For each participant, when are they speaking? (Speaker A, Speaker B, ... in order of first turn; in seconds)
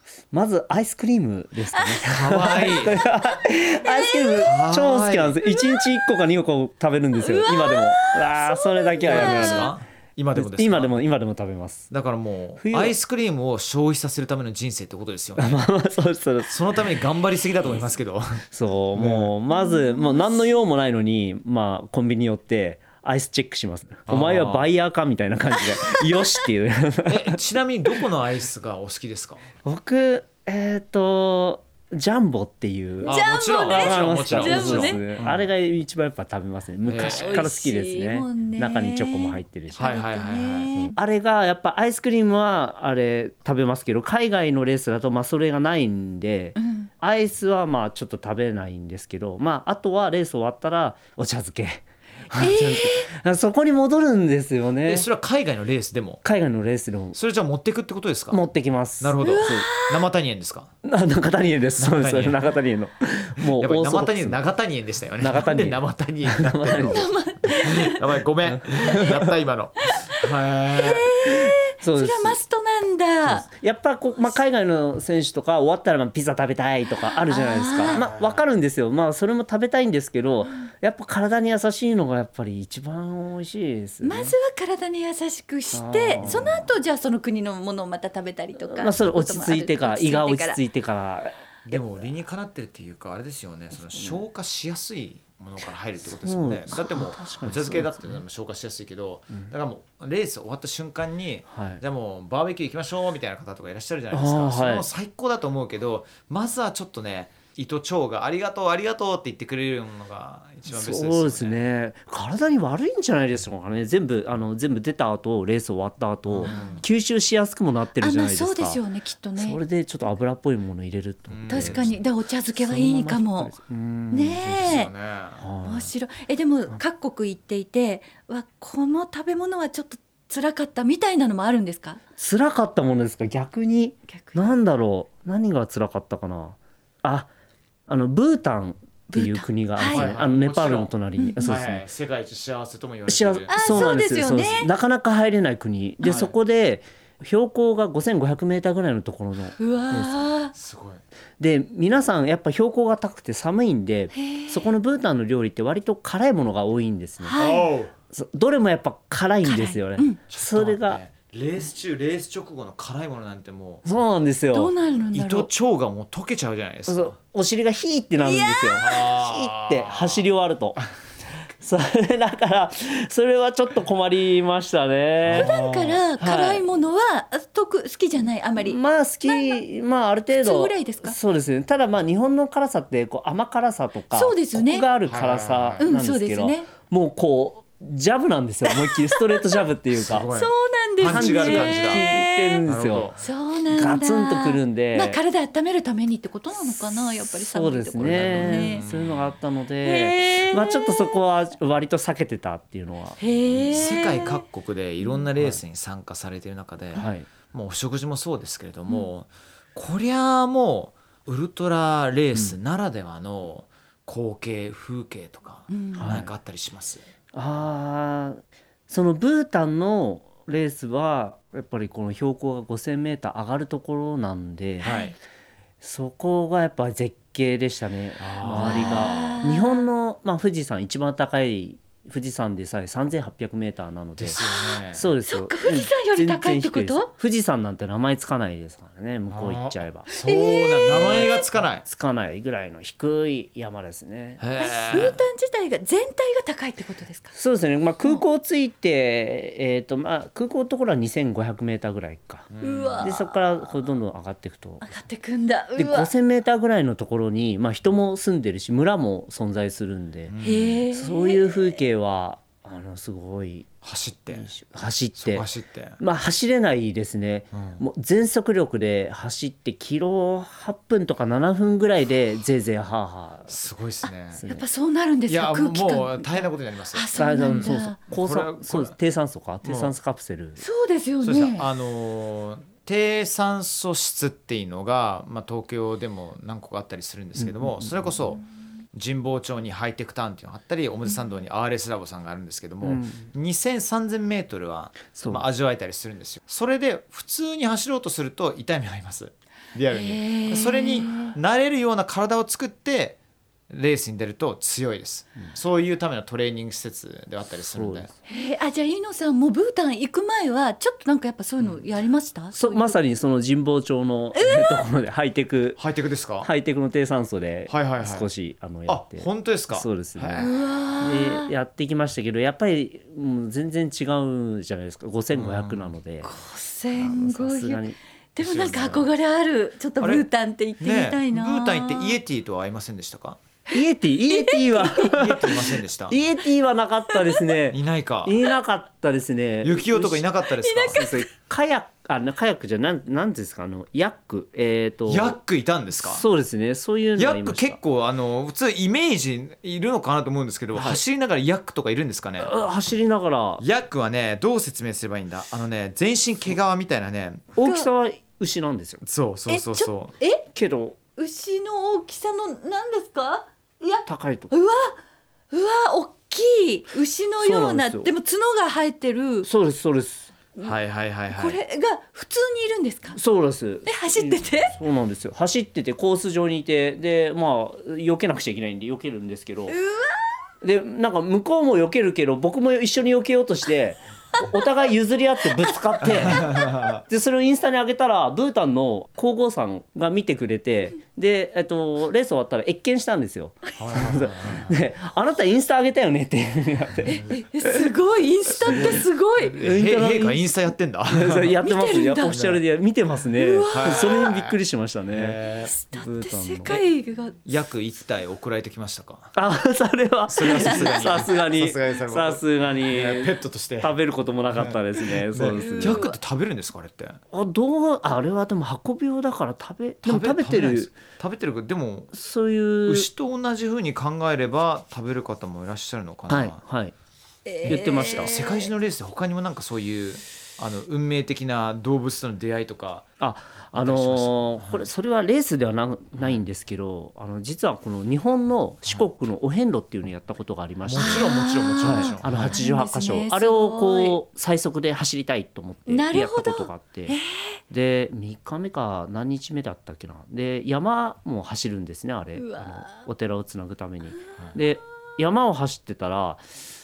Speaker A: 0.3-9.8, 10.3-11.9, 12.6-12.9, 15.4-16.5, 18.5-27.4, 29.6-39.9, 40.8-55.1, 56.2-57.2, 58.3-59.7, 60.8-64.4, 65.2-67.1, 68.5-69.3, 71.3-72.4, 73.2-84.3, 85.7-86.7, 88.6-91.8, 93.8-94.2, 96.1-98.2, 101.5-101.8, 104.1-104.9, 110.7-118.8, 119.4-122.0, 122.5-124.5, 125.4-125.9, 132.2-137.3, 137.9-141.8, 143.1-150.3, 151.4-157.4, 158.1-161.0, 163.8-164.7, 166.9-170.8, 171.6-175.5, 176.2-176.7, 178.6-190.3, 191.0-193.1, 193.7-195.2, 197.0-203.9, 206.9-207.3, 216.0-216.3, 217.3-224.9, 225.8-240.1, 240.9-245.1, 247.3-252.5, 253.0-254.9, 255.8-260.4, 260.9-263.7, 264.3-265.5, 266.0-273.5, 274.4-274.6, 277.2-280.6, 287.4-288.1, 292.8-293.3, 295.1-295.4, 307.7-308.1, 312.5-315.8, 316.4-326.3, 327.0-328.0, 333.7-340.3, 340.9-345.4, 346.0-347.8, 350.7-351.0, 352.4-353.6, 357.6-359.0, 360.5-361.0, 364.1-364.5, 367.4-368.1, 369.4-370.3, 373.1-379.8, 380.6-397.8, 399.6-400.5, 401.1-405.4, 405.9-406.8, 409.4-416.1, 417.3-420.9, 422.1-423.1, 426.3-426.9, 427.6-428.4, 433.2-447.2, 447.7-456.4
Speaker B: 1.8-2.0, 3.8-4.5, 5.5-5.8, 7.2-9.7, 19.5-20.5, 25.8-26.4, 33.0-35.0, 37.0-41.0, 46.6-46.9, 52.3-53.1, 59.2-60.1, 66.8-68.0, 69.8-73.5, 77.3-78.0, 84.0-90.6, 116.5-116.8, 118.0-119.6, 121.5-123.5, 124.1-124.9, 125.6-132.0, 134.1-134.5, 139.1-140.1, 141.2-141.5, 143.5-144.7, 149.6-150.5, 154.1-154.7, 157.2-157.7, 159.4-160.2, 164.5-165.5, 168.2-169.0, 175.3-179.6, 180.3-181.2, 184.1-184.9, 185.8-186.7, 188.7-189.6, 190.3-192.6, 193.2-198.9, 199.8-201.2, 203.2-204.4, 215.7-216.2, 224.8-225.2, 228.6-229.9, 234.4-237.1, 240.1-241.4, 244.6-247.3, 252.6-253.3, 254.8-256.1, 260.4-261.8, 274.5-278.0, 280.6-281.7, 299.9-301.4, 308.3-313.0, 314.3-314.8, 320.4-321.5, 326.2-327.9, 328.4-332.2, 334.3-335.1, 337.1-337.4, 340.6-341.2, 357.6-357.9, 359.5-360.4, 361.2-365.0, 365.5-369.5, 371.3-373.2, 373.9-374.8, 379.7-380.2, 386.3-386.6, 397.1-399.6, 401.6-402.4, 403.4-404.4, 405.6-407.4, 410.4-411.4, 415.5-416.2, 427.5-428.7, 441.0-444.2, 445.9-447.6, 452.4-453.1
Speaker C: 2.0-3.0, 4.4-5.4, 9.1-11.0, 11.9-15.6, 16.5-18.4, 18.9-19.3, 24.1-24.7, 27.1-29.4, 33.0-35.5, 36.9-37.5, 39.8-40.7, 54.9-56.2, 57.1-58.4, 59.0-60.7, 61.8-62.4, 63.4-71.1, 77.9-78.4, 86.2-86.5, 91.7-111.6, 116.3-116.8, 121.3-121.9, 124.3-125.4, 139.9-140.9, 141.4-143.9, 146.0-146.3, 150.5-151.0, 157.4-157.9, 160.3-163.9, 165.1-167.1, 168.8-170.3, 175.2-176.0, 185.1-185.9, 189.9-192.1, 192.7-193.2, 198.0-199.3, 203.7-217.0, 224.8-225.1, 228.2-229.4, 234.2-235.1, 239.3-241.8, 244.4-245.2, 252.5-253.2, 260.3-260.8, 263.8-264.5, 265.2-266.0, 267.5-267.8, 273.5-274.4, 275.3-279.0, 279.6-279.9, 281.2-288.4, 288.9-303.2, 303.7-308.1, 315.8-316.5, 317.7-318.3, 318.9-320.5, 325.3-325.9, 328.4-329.1, 330.0-330.3, 330.8-333.4, 335.0-336.2, 337.7-338.4, 339.6-341.1, 345.1-346.2, 347.2-352.6, 353.6-357.5, 359.0-360.1, 370.6-371.6, 386.1-387.0, 393.8-394.8, 397.0-397.4, 398.6-401.6, 402.3-402.6, 403.7-404.6, 405.1-405.8, 407.4-409.4, 410.3-414.0, 414.5-417.2, 420.0-422.2, 422.9-426.6, 427.7-433.1, 433.8-434.9, 440.9-442.6